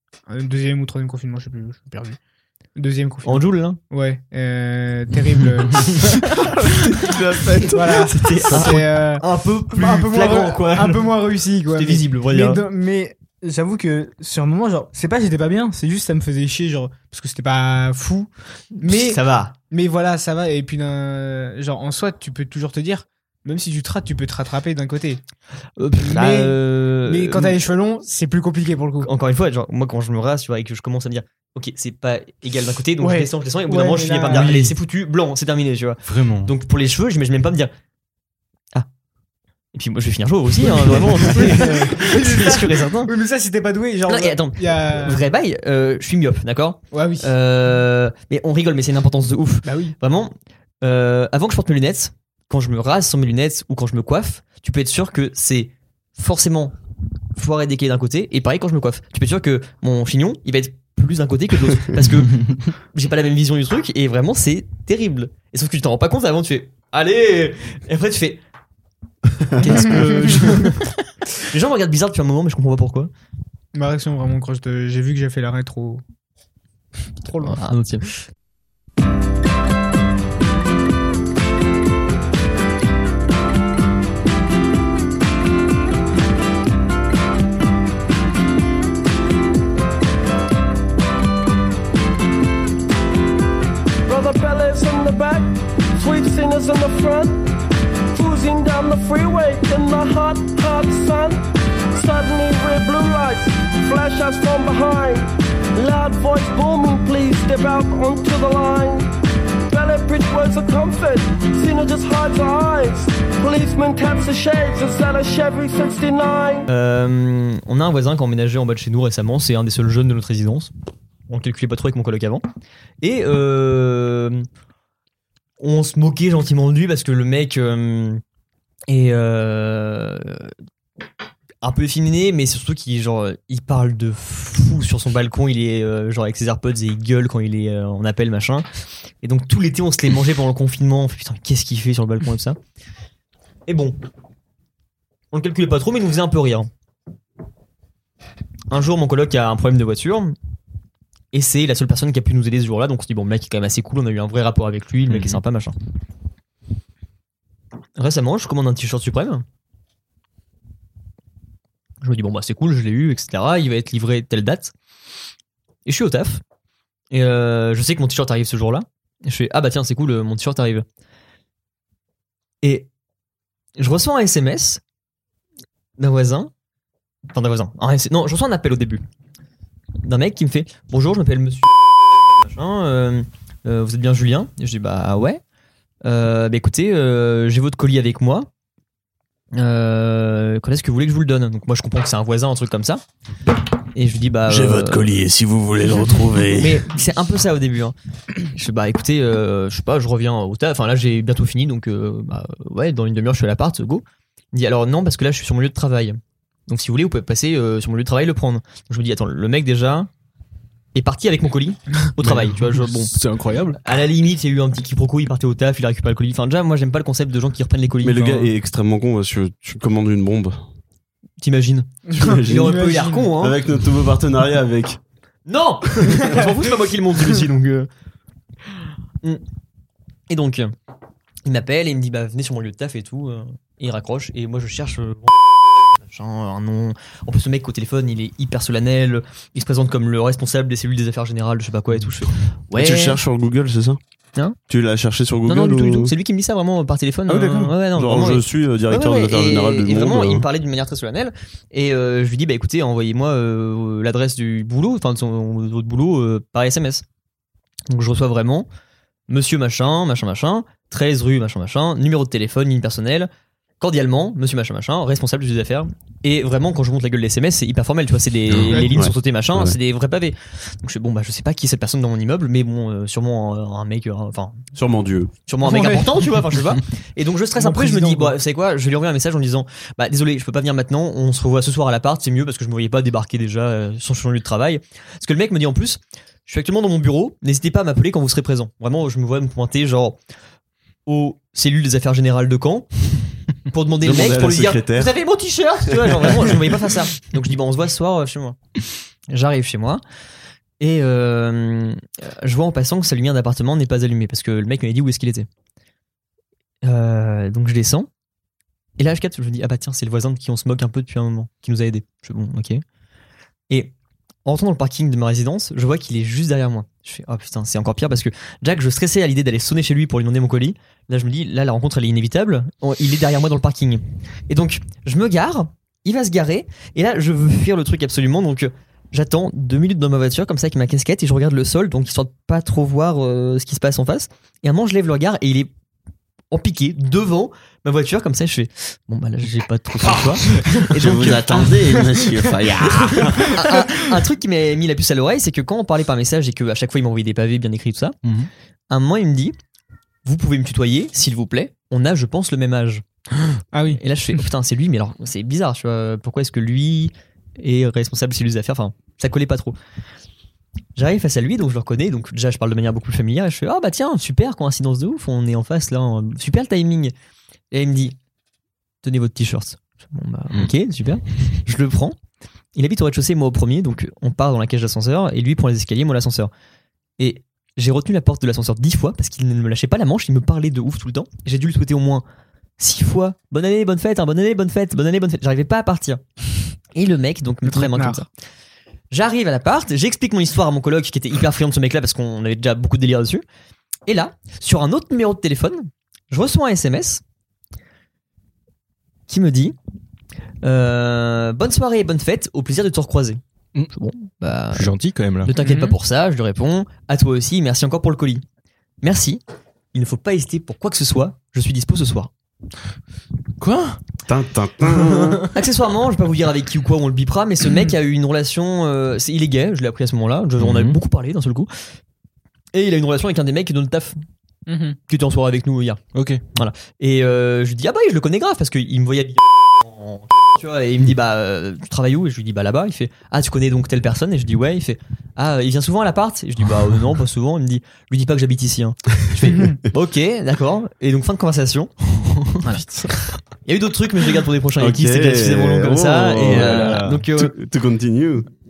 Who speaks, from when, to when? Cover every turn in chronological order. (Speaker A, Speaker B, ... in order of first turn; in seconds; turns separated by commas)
Speaker A: 0.3-2.2, Speaker A: 2.8-25.2, Speaker B: 3.2-3.8, Speaker B: 7.7-11.1, Speaker B: 11.7-12.6, Speaker B: 18.8-19.6, Speaker B: 25.8-27.6, Speaker A: 26.0-29.1, Speaker B: 29.0-37.7, Speaker A: 33.0-34.5, Speaker C: 34.3-34.8, Speaker C: 36.0-36.5, Speaker B: 39.7-43.1, Speaker A: 40.6-45.2, Speaker B: 44.1-56.7, Speaker A: 46.9-47.3, Speaker A: 49.6-50.0, Speaker B: 57.4-68.4, Speaker B: 69.6-70.9, Speaker A: 69.7-70.5, Speaker B: 71.4-73.1, Speaker A: 73.7-76.0, Speaker A: 77.2-77.7, Speaker B: 77.4-78.1, Speaker D: 94.1-97.4, Speaker D: 98.1-101.4, Speaker D: 101.9-109.1, Speaker D: 109.7-116.7, Speaker B: 116.7-120.7, Speaker B: 121.3-122.5, Speaker B: 123.0-124.5, Speaker B: 125.6-128.2, Speaker B: 128.9-130.5, Speaker B: 131.6-138.6, Speaker B: 139.2-142.6, Speaker B: 143.7-144.0, Speaker B: 145.3-146.7, Speaker B: 148.7-150.3, Speaker B: 151.3-155.8, Speaker C: 155.1-155.4, Speaker B: 158.0-159.4, Speaker B: 162.0-164.7, Speaker B: 165.9-166.4, Speaker B: 167.1-170.8, Speaker B: 172.6-172.9, Speaker B: 173.8-174.8, Speaker B: 176.0-176.5, Speaker B: 177.3-179.0, Speaker B: 180.0-181.7, Speaker B: 182.4-185.4, Speaker B: 186.0-188.5, Speaker B: 189.5-193.0, Speaker B: 193.9-195.1, Speaker E: 194.5-196.9, Speaker B: 196.5-197.9, Speaker B: 198.5-210.1, Speaker B: 210.9-213.1, Speaker C: 212.2-213.8, Speaker B: 213.8-218.5, Speaker E: 218.0-220.6, Speaker B: 221.4-223.6, Speaker A: 222.1-223.3, Speaker E: 222.2-225.0, Speaker B: 225.5-227.9, Speaker B: 230.3-230.7, Speaker B: 231.4-235.3, Speaker B: 236.0-243.2, Speaker E: 242.8-244.0, Speaker E: 244.7-246.1, Speaker B: 245.5-257.0, Speaker E: 247.3-250.5, Speaker B: 257.9-258.7, Speaker B: 259.3-274.6, Speaker E: 268.6-269.8, Speaker E: 274.7-275.3, Speaker B: 275.5-290.2, Speaker A: 275.6-276.4, Speaker A: 277.6-278.4, Speaker B: 291.1-292.9, Speaker B: 293.6-298.6, Speaker E: 294.0-295.1, Speaker B: 299.3-300.0, Speaker B: 300.8-305.5, Speaker B: 306.8-308.1, Speaker B: 309.0-312.8, Speaker B: 314.4-335.7, Speaker B: 336.5-341.7, Speaker E: 340.8-343.6, Speaker A: 343.5-344.0, Speaker B: 343.6-348.1, Speaker C: 348.2-348.5, Speaker B: 348.9-349.6, Speaker B: 350.2-353.0, Speaker A: 353.7-354.4, Speaker B: 354.0-359.8, Speaker B: 361.0-367.1, Speaker B: 367.7-368.2, Speaker B: 369.0-372.2, Speaker B: 372.8-376.5, Speaker B: 377.2-382.2, Speaker B: 382.8-386.2, Speaker B: 386.9-388.3, Speaker A: 387.7-388.2, Speaker B: 389.1-393.4, Speaker B: 394.1-397.2, Speaker B: 399.3-399.8, Speaker B: 400.6-403.4, Speaker B: 403.9-408.4, Speaker C: 404.7-405.5, Speaker A: 405.6-406.0, Speaker B: 409.0-409.4, Speaker B: 409.9-412.3, Speaker C: 413.6-414.0, Speaker E: 414.2-415.4, Speaker B: 415.5-421.7, Speaker A: 417.7-417.9, Speaker C: 420.6-421.0, Speaker B: 422.7-424.2, Speaker A: 424.7-425.0, Speaker B: 425.1-426.0, Speaker C: 426.1-426.4, Speaker B: 426.5-442.0, Speaker C: 442.5-443.2, Speaker B: 442.6-442.8, Speaker B: 443.6-447.5, Speaker E: 444.8-448.5, Speaker C: 446.5-447.2